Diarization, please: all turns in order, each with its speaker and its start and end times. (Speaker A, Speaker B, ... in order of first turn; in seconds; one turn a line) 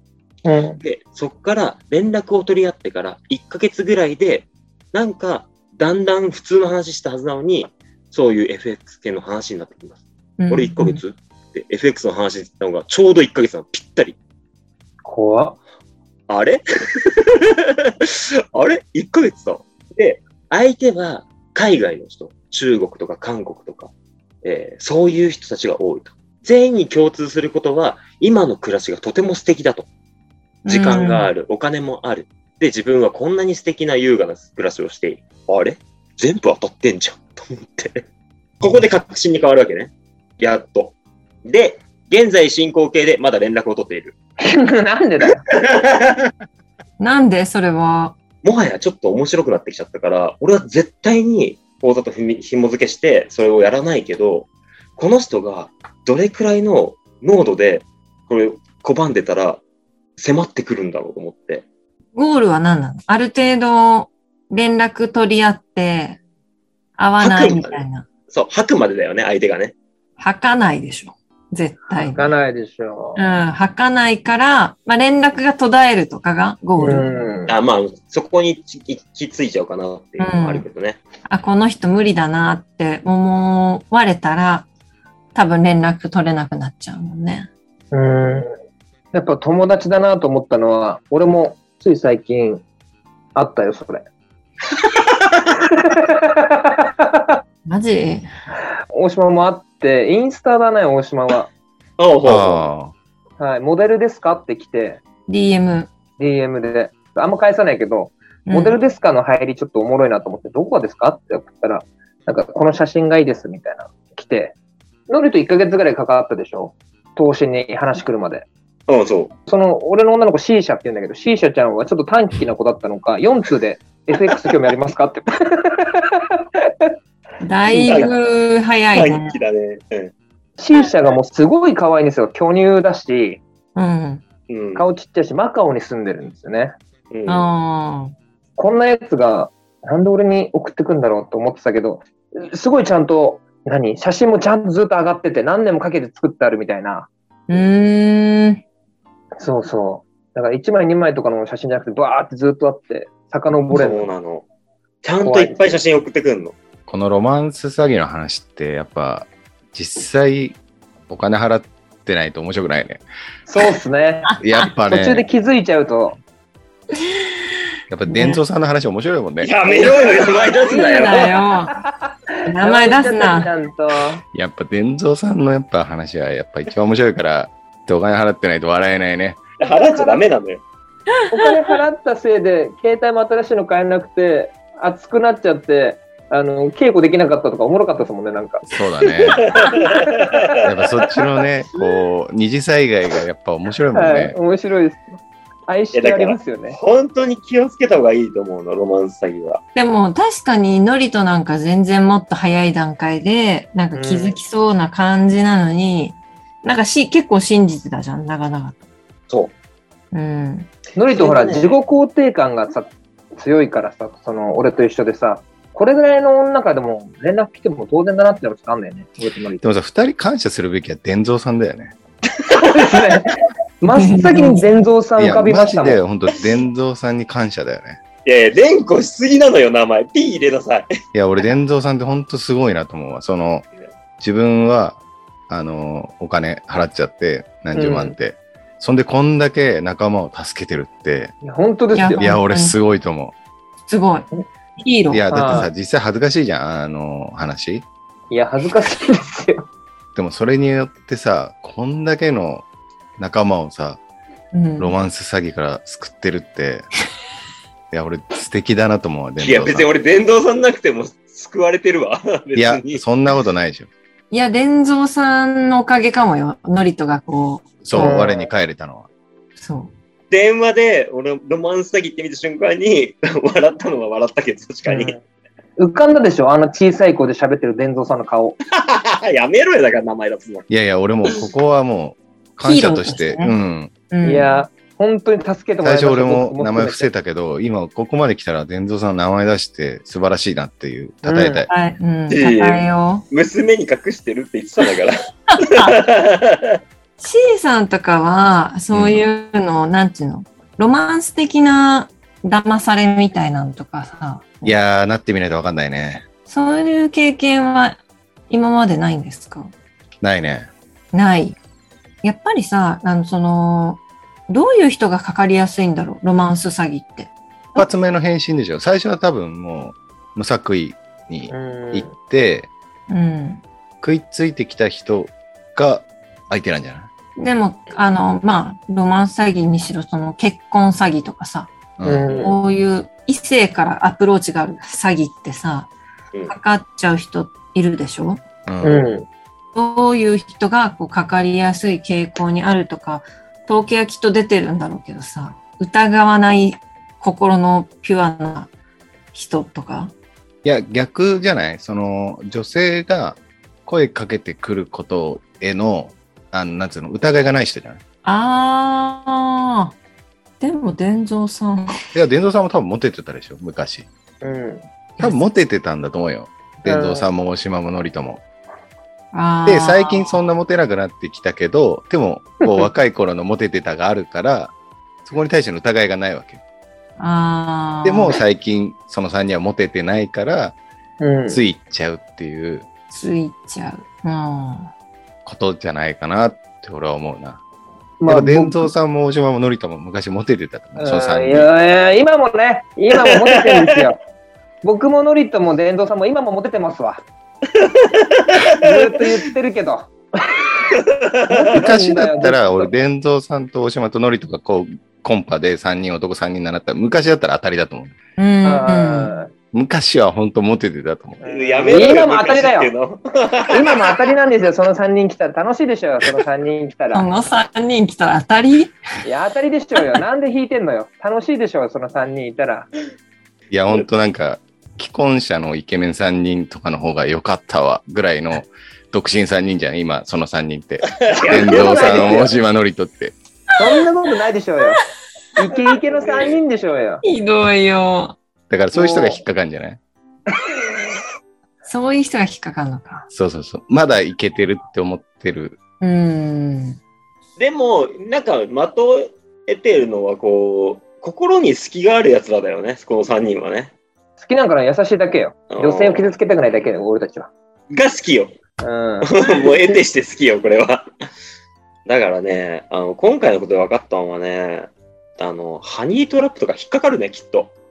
Speaker A: 0.5-0.8
Speaker B: 0.8-14.2
Speaker C: 10.4-11.0
Speaker A: 15.1-15.6
Speaker B: 16.3-23.9
Speaker B: 24.4-29.9
Speaker C: 30.7-31.3
Speaker B: 30.7-38.0
Speaker B: 38.6-44.1
Speaker A: 44.4-45.4
Speaker B: 45.5-46.3
Speaker C: 47.0-48.2
Speaker B: 48.4-59.6
Speaker B: 60.2-61.6
Speaker C: 62.1-66.2
Speaker C: 67.0-68.0
Speaker B: 67.2-69.8
Speaker C: 70.2-72.3
Speaker A: 72.1-73.2
Speaker C: 73.2-77.1
Speaker A: 76.8-77.5
Speaker B: 77.5-81.0
Speaker C: 80.2-80.7
Speaker C: 81.3-84.7
Speaker C: 85.3-87.5
Speaker A: 87.9-88.5
Speaker A: 89.1-92.6
Speaker A: 93.3-94.0
Speaker A: 95.7-97.4
Speaker C: 97.7-98.3
Speaker A: 98.9-101.5
Speaker B: 102.0-102.7
Speaker D: 102.2-102.9
Speaker A: 103.4-105.0
Speaker C: 105.3-105.9
Speaker A: 106.2-114.5
Speaker C: 108.5-108.8
Speaker A: 115.1-118.5
Speaker B: 118.9-119.3
Speaker A: 119.5-126.2
Speaker C: 127.4-129.4
Speaker A: 127.7-128.1
Speaker B: 127.8-128.1
Speaker B: 128.9-130.1
Speaker A: 130.6-133.4
Speaker C: 133.8-134.2
Speaker B: 134.5-134.9
Speaker A: 134.8-136.8
Speaker B: 137.1-137.5
Speaker C: 137.3-138.2
Speaker A: 138.6-147.6
Speaker C: 147.5-148.6
Speaker A: 149.4-154.1
Speaker B: 153.7-154.5
Speaker B: 155.0-156.6
Speaker A: 155.2-155.8
Speaker D: 156.9-160.6
Speaker D: 161.1-163.0
Speaker A: 163.5-164.3
Speaker C: 164.3-164.7
Speaker D: 164.4-165.2
Speaker A: 164.9-166.2
Speaker D: 167.9-169.6
Speaker C: 168.1-168.4
Speaker B: 169.4-171.4
Speaker A: 169.7-174.2
Speaker C: 170.7-171.8
Speaker C: 172.5-173.5
Speaker D: 174.3-179.4
Speaker B: 179.6-180.6
Speaker A: 179.6-180.2
Speaker A: 181.3-188.7
Speaker D: 188.7-189.5
Speaker B: 189.3-190.6
Speaker A: 189.7-190.5
Speaker D: 190.6-194.4
Speaker A: 193.9-196.8
Speaker B: 195.9-199.6
Speaker C: 199.8-208.8
Speaker A: 203.9-204.4
Speaker C: 210.1-210.7
Speaker A: 211.0-219.6
Speaker B: 211.1-211.8
Speaker D: 219.6-221.9
Speaker A: 222.6-226.0
Speaker C: 223.9-224.7
Speaker D: 225.2-228.0
Speaker B: 228.2-230.9
Speaker D: 231.1-233.7
Speaker D: 234.2-241.3
Speaker A: 237.8-238.2
Speaker A: 241.4-242.2
Speaker C: 241.9-242.8
Speaker D: 242.2-243.3
Speaker C: 243.9-245.6
Speaker D: 245.1-247.8
Speaker A: 245.3-245.7
Speaker A: 248.3-249.7
Speaker D: 250.2-252.7
Speaker D: 253.2-254.0
Speaker C: 254.5-254.9
Speaker D: 254.8-256.9
Speaker D: 257.9-259.9
Speaker B: 259.4-263.0
Speaker D: 262.6-263.9
Speaker C: 264.3-268.2
Speaker D: 267.8-269.1
Speaker A: 268.0-268.5
Speaker C: 269.6-269.9
Speaker B: 270.3-275.2
Speaker A: 274.9-275.2
Speaker A: 275.8-278.6
Speaker B: 278.7-280.7
Speaker D: 280.7-283.9
Speaker C: 282.6-283.6
Speaker C: 284.1-284.5
Speaker A: 284.2-287.1
Speaker D: 285.8-291.7
Speaker A: 291.2-291.7
Speaker C: 291.7-293.2
Speaker B: 292.3-296.8
Speaker C: 295.5-296.0
Speaker C: 297.2-304.8
Speaker D: 298.9-299.3
Speaker D: 304.6-306.2
Speaker C: 306.5-309.7
Speaker D: 310.2-310.7
Speaker C: 311.1-311.6
Speaker C: 312.2-317.9
Speaker D: 317.8-322.7
Speaker A: 321.5-322.1
Speaker C: 323.1-323.6
Speaker D: 324.0-327.1
Speaker C: 327.4-331.8
Speaker D: 332.0-332.4
Speaker A: 332.1-332.6
Speaker C: 332.4-335.9
Speaker C: 336.5-338.4
Speaker D: 338.7-339.1
Speaker A: 338.8-339.3
Speaker C: 339.7-348.7
Speaker C: 349.3-350.1
Speaker D: 350.6-358.0
Speaker C: 358.2-359.9
Speaker C: 360.6-361.9
Speaker D: 362.1-364.1
Speaker A: 364.4-364.9
Speaker D: 365.2-368.4
Speaker A: 366.8-367.3
Speaker C: 369.3-370.4
Speaker D: 369.6-374.7
Speaker D: 375.2-376.6
Speaker C: 377.2-378.4
Speaker D: 378.0-380.8
Speaker A: 381.2-381.6
Speaker D: 381.5-382.9
Speaker C: 383.1-384.9
Speaker D: 385.4-387.6
Speaker A: 388.2-388.9
Speaker D: 388.3-391.7
Speaker A: 391.0-394.2
Speaker B: 393.3-394.0
Speaker A: 394.8-397.2
Speaker B: 397.7-399.2
Speaker A: 398.8-400.7
Speaker B: 400.9-401.7
Speaker A: 401.5-402.9
Speaker D: 401.7-408.1
Speaker C: 408.4-409.4
Speaker A: 408.6-409.5
Speaker D: 409.7-411.4
Speaker A: 411.4-412.9
Speaker B: 411.4-414.2
Speaker A: 413.7-417.3
Speaker C: 417.1-419.0
Speaker A: 419.2-422.9
Speaker D: 423.7-433.3
Speaker B: 431.1-432.5
Speaker A: 431.4-432.5
Speaker A: 433.8-435.0
Speaker A: 435.6-437.2
Speaker B: 436.1-436.6
Speaker C: 437.2-438.4
Speaker D: 438.7-440.0
Speaker A: 438.9-439.4
Speaker C: 441.8-443.3
Speaker D: 443.3-445.8
Speaker C: 446.0-447.0
Speaker B: 447.6-453.9
Speaker A: 454.4-457.5
Speaker B: 455.7-456.4
Speaker B: 457.9-458.6
Speaker A: 458.8-459.6
Speaker B: 459.2-461.1
Speaker B: 462.1-467.7